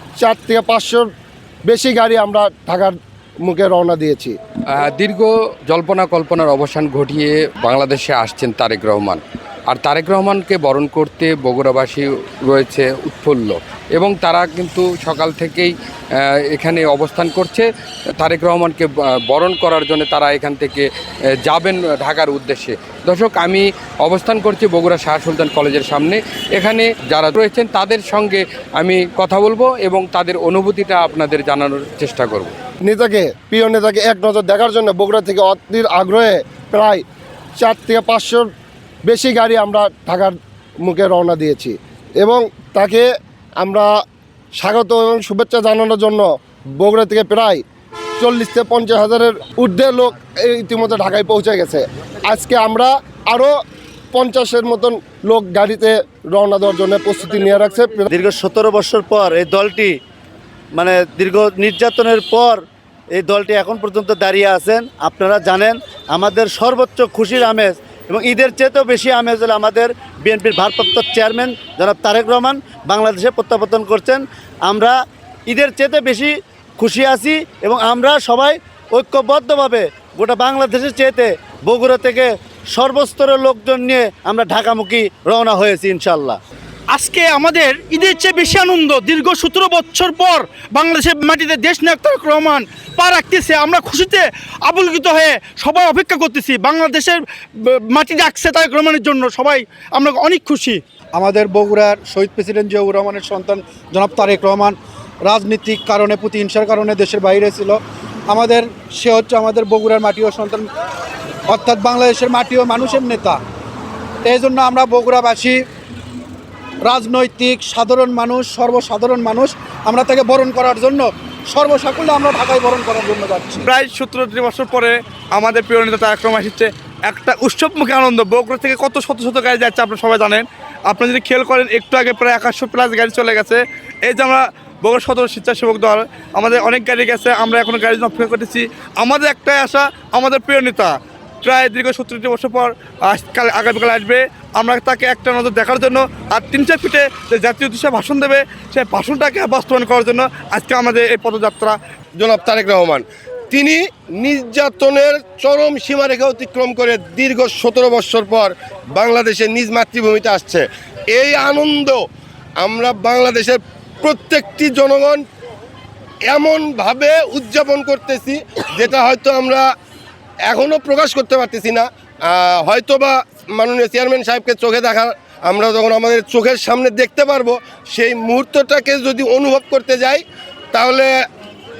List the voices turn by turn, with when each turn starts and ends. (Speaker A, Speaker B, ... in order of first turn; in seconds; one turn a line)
Speaker A: 0.2-1.1
Speaker A: 1.7-2.9
Speaker A: 3.5-4.3
Speaker B: 4.7-17.7
Speaker B: 18.2-20.9
Speaker B: 21.5-32.5
Speaker A: 32.9-37.0
Speaker A: 37.6-38.5
Speaker A: 39.0-40.3
Speaker A: 40.9-43.0
Speaker A: 43.6-43.9
Speaker A: 44.6-46.2
Speaker A: 46.8-47.6
Speaker A: 48.2-53.5
Speaker A: 54.1-58.1
Speaker C: 58.1-59.9
Speaker C: 60.8-62.6
Speaker C: 63.1-74.9
Speaker C: 75.5-86.4
Speaker D: 86.9-100.8
Speaker E: 101.2-104.7
Speaker E: 105.3-107.8
Speaker E: 108.3-110.7
Speaker E: 111.5-113.4
Speaker E: 114.2-115.6
Speaker E: 116.8-123.6
Speaker F: 123.6-151.7
Speaker G: 152.2-162.0
Speaker G: 162.6-165.2
Speaker G: 166.3-169.7
Speaker G: 170.5-181.1